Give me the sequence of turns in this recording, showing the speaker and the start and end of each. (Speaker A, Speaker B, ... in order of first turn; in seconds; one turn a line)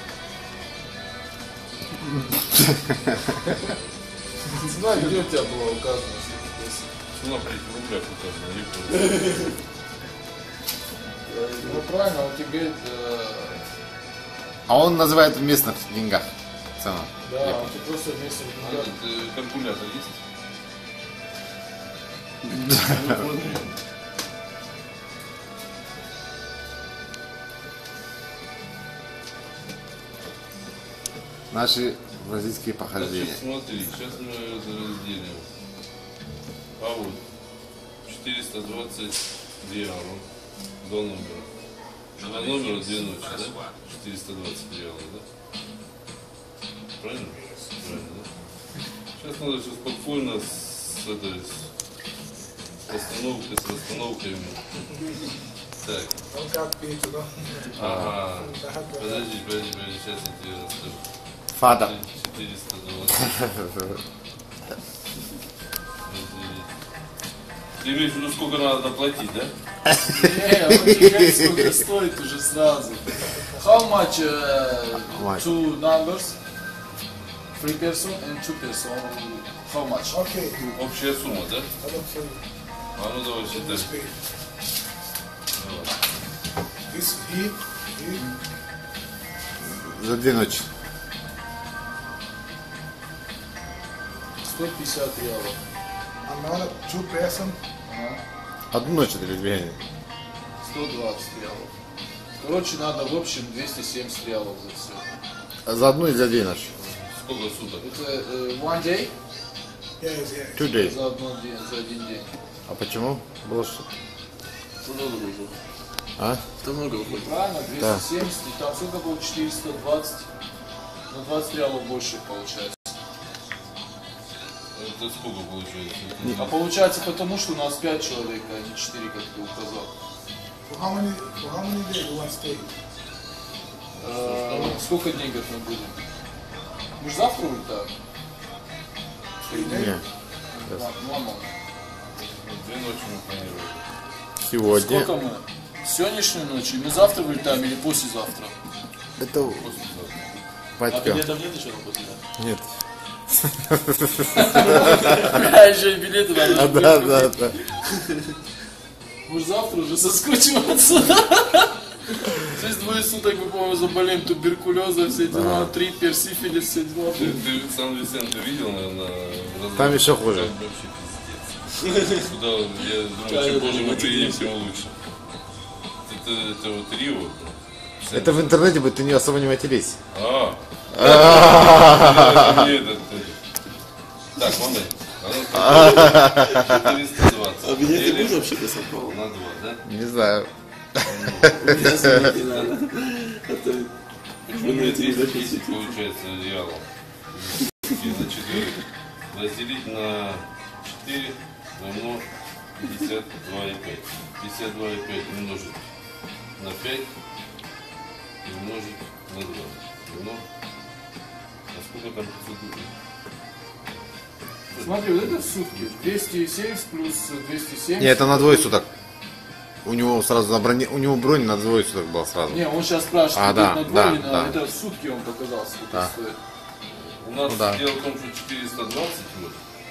Speaker A: 4.5-6.9
Speaker B: 7.1-9.5
Speaker C: 11.3-11.9
Speaker A: 11.5-13.7
Speaker D: 14.7-16.3
Speaker D: 16.8-17.7
Speaker A: 17.2-18.9
Speaker B: 18.6-20.2
Speaker B: 22.7-23.7
Speaker D: 31.5-33.4
Speaker B: 33.0-35.5
Speaker B: 36.8-37.2
Speaker B: 38.0-40.2
Speaker B: 40.8-41.5
Speaker B: 42.2-45.2
Speaker B: 47.0-48.3
Speaker B: 49.2-51.7
Speaker B: 52.9-54.9
Speaker B: 55.8-56.2
Speaker E: 56.3-59.3
Speaker B: 57.7-61.0
Speaker D: 57.8-58.1
Speaker D: 61.5-61.9
Speaker B: 61.7-63.5
Speaker D: 63.2-64.0
Speaker B: 66.0-66.7
Speaker B: 67.8-69.5
Speaker D: 69.9-71.7
Speaker A: 70.0-76.4
Speaker D: 75.1-75.5
Speaker A: 77.6-80.2
Speaker E: 80.1-80.7
Speaker B: 80.6-81.7
Speaker E: 81.8-82.4
Speaker B: 83.0-83.9
Speaker E: 83.5-84.2
Speaker B: 85.6-85.9
Speaker E: 86.9-88.2
Speaker D: 89.6-90.7
Speaker A: 94.4-95.6
Speaker E: 96.2-97.6
Speaker A: 97.9-98.2
Speaker D: 98.7-99.8
Speaker A: 100.6-101.7
Speaker A: 102.4-105.0
Speaker D: 105.6-106.7
Speaker B: 106.7-107.8
Speaker A: 107.8-109.1
Speaker E: 110.0-110.6
Speaker D: 110.6-111.0
Speaker A: 110.7-112.3
Speaker D: 112.7-113.8
Speaker C: 114.8-115.5
Speaker D: 116.2-116.4
Speaker C: 116.6-117.3
Speaker A: 117.0-120.3
Speaker D: 117.8-118.0
Speaker A: 121.1-123.0
Speaker B: 124.7-126.6
Speaker A: 126.3-129.9
Speaker E: 130.7-132.7
Speaker B: 133.9-134.8
Speaker A: 134.0-136.0
Speaker A: 137.0-137.9
Speaker A: 139.4-139.9
Speaker E: 139.4-139.9
Speaker D: 139.7-140.0
Speaker A: 140.5-141.5
Speaker B: 142.2-143.8
Speaker D: 144.4-145.1
Speaker A: 144.7-148.6
Speaker D: 149.2-149.7
Speaker B: 149.6-150.2
Speaker D: 150.8-151.3
Speaker C: 150.9-152.2
Speaker D: 152.4-152.7
Speaker D: 153.3-155.2
Speaker A: 154.3-157.3
Speaker D: 156.5-157.6
Speaker A: 159.2-167.4
Speaker D: 165.3-165.7
Speaker B: 167.1-175.0
Speaker D: 169.8-170.5
Speaker C: 173.2-174.5
Speaker B: 176.1-178.5
Speaker D: 178.1-180.0
Speaker B: 180.1-183.4
Speaker D: 180.9-182.7
Speaker B: 184.3-189.8
Speaker D: 185.5-186.8
Speaker C: 187.6-189.2
Speaker D: 189.8-192.3
Speaker B: 191.0-192.8
Speaker C: 191.6-193.9
Speaker B: 194.5-205.8
Speaker C: 194.5-195.9
Speaker B: 206.6-207.1
Speaker B: 208.4-210.4
Speaker B: 211.7-212.9
Speaker B: 214.7-216.2
Speaker A: 214.8-218.7
Speaker D: 218.0-218.9
Speaker D: 219.8-222.7
Speaker A: 222.5-226.4
Speaker D: 223.3-224.6
Speaker B: 226.9-229.6
Speaker D: 227.5-227.8